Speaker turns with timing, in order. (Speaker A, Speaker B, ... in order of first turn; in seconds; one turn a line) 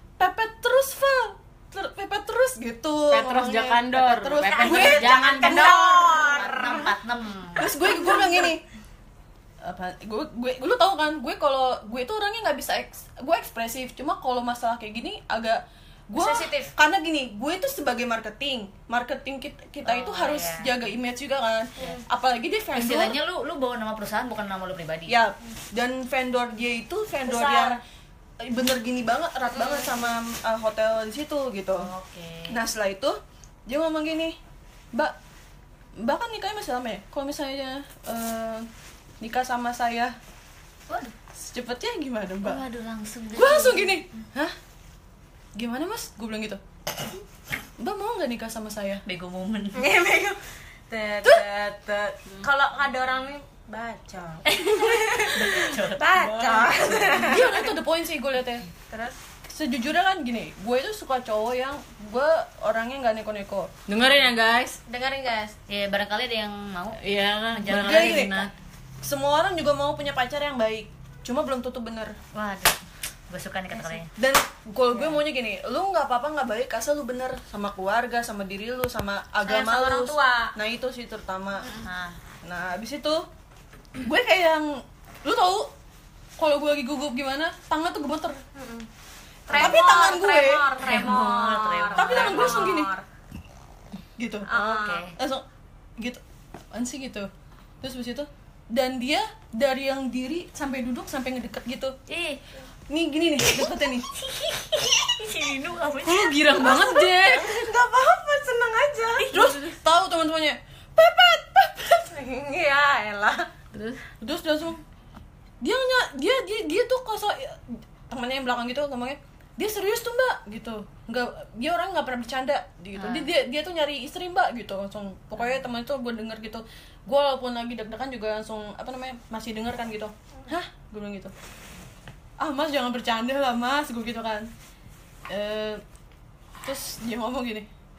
Speaker A: 0.2-6.7
Speaker B: 3.1-5.8
Speaker C: 4.5-6.9
Speaker D: 5.9-7.7
Speaker A: 7.5-8.6
Speaker C: 7.8-8.5
Speaker A: 9.6-23.2
Speaker C: 16.2-16.7
Speaker D: 19.8-20.7
Speaker C: 21.8-22.0
Speaker D: 22.7-25.1
Speaker A: 25.1-27.8
Speaker C: 27.2-27.8
Speaker A: 28.4-31.9
Speaker C: 29.5-30.1
Speaker D: 31.8-32.6
Speaker A: 32.5-34.4
Speaker A: 36.0-38.7
Speaker A: 39.2-40.1
Speaker D: 40.9-41.1
Speaker A: 41.3-42.6
Speaker D: 42.4-44.2
Speaker A: 43.3-44.5
Speaker A: 45.5-46.6
Speaker A: 47.8-49.0
Speaker D: 49.0-49.9
Speaker C: 49.7-57.7
Speaker D: 54.5-56.4
Speaker B: 56.3-57.2
Speaker A: 57.1-58.7
Speaker C: 58.9-59.2
Speaker A: 59.5-63.7
Speaker B: 63.9-64.8
Speaker C: 64.9-65.5
Speaker D: 65.7-67.0
Speaker B: 67.0-68.5
Speaker D: 67.5-68.5
Speaker A: 67.7-68.5
Speaker A: 69.0-72.1
Speaker D: 72.3-74.1
Speaker A: 74.1-81.7
Speaker C: 74.9-75.2
Speaker C: 79.4-80.5
Speaker D: 81.7-82.2
Speaker A: 82.4-83.2
Speaker A: 84.0-85.7
Speaker A: 86.4-88.4
Speaker C: 88.5-88.9
Speaker C: 89.5-93.0
Speaker A: 89.5-90.7
Speaker D: 90.8-92.7
Speaker A: 92.0-92.9
Speaker A: 94.2-94.5
Speaker C: 94.5-95.1
Speaker D: 94.5-95.1
Speaker A: 95.1-95.4
Speaker A: 96.7-97.3
Speaker A: 97.8-101.9
Speaker D: 102.1-102.4
Speaker A: 102.9-104.0
Speaker D: 103.4-106.4
Speaker B: 106.0-107.6
Speaker C: 106.6-109.3
Speaker D: 109.2-109.7
Speaker A: 109.3-111.8
Speaker C: 111.8-113.5
Speaker B: 113.7-114.0
Speaker A: 114.2-114.8
Speaker A: 115.6-131.3
Speaker D: 122.9-123.3
Speaker A: 132.4-134.5
Speaker A: 135.3-135.8
Speaker A: 136.6-137.7